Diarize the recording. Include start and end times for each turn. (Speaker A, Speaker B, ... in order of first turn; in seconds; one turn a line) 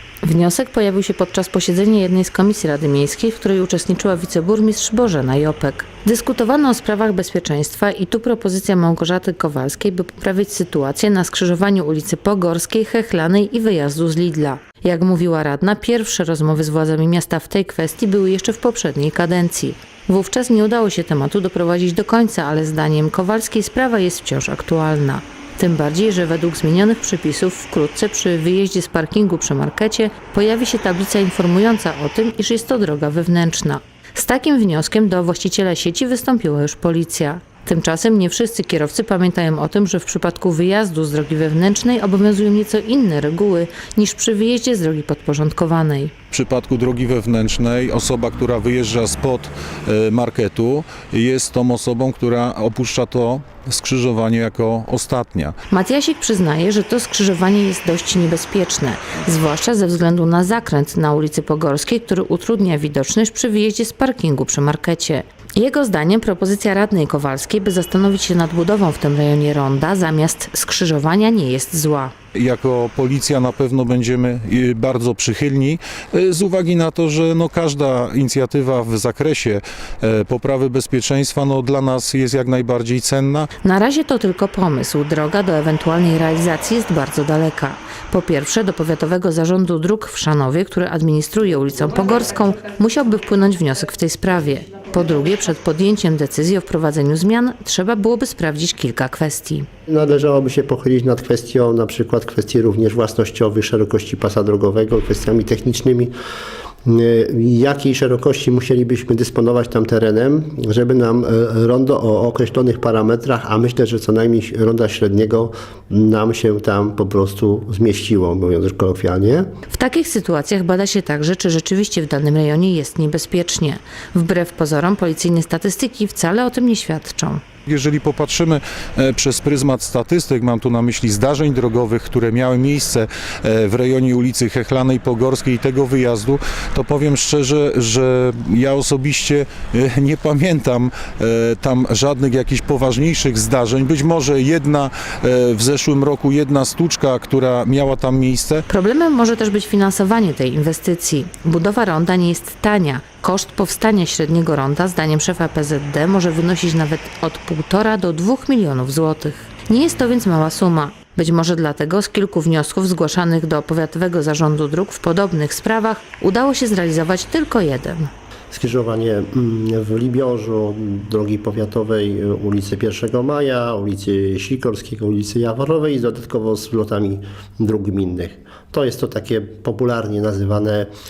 Speaker A: 0.2-46.1
Speaker B: 46.3-55.5
Speaker A: 55.7-72.1
Speaker B: 72.3-83.5
Speaker A: 83.6-99.7
Speaker C: 99.9-106.1
Speaker C: 106.8-119.5
Speaker A: 119.7-127.4
Speaker B: 127.7-148.6
Speaker A: 148.7-168.1
Speaker C: 168.5-180.9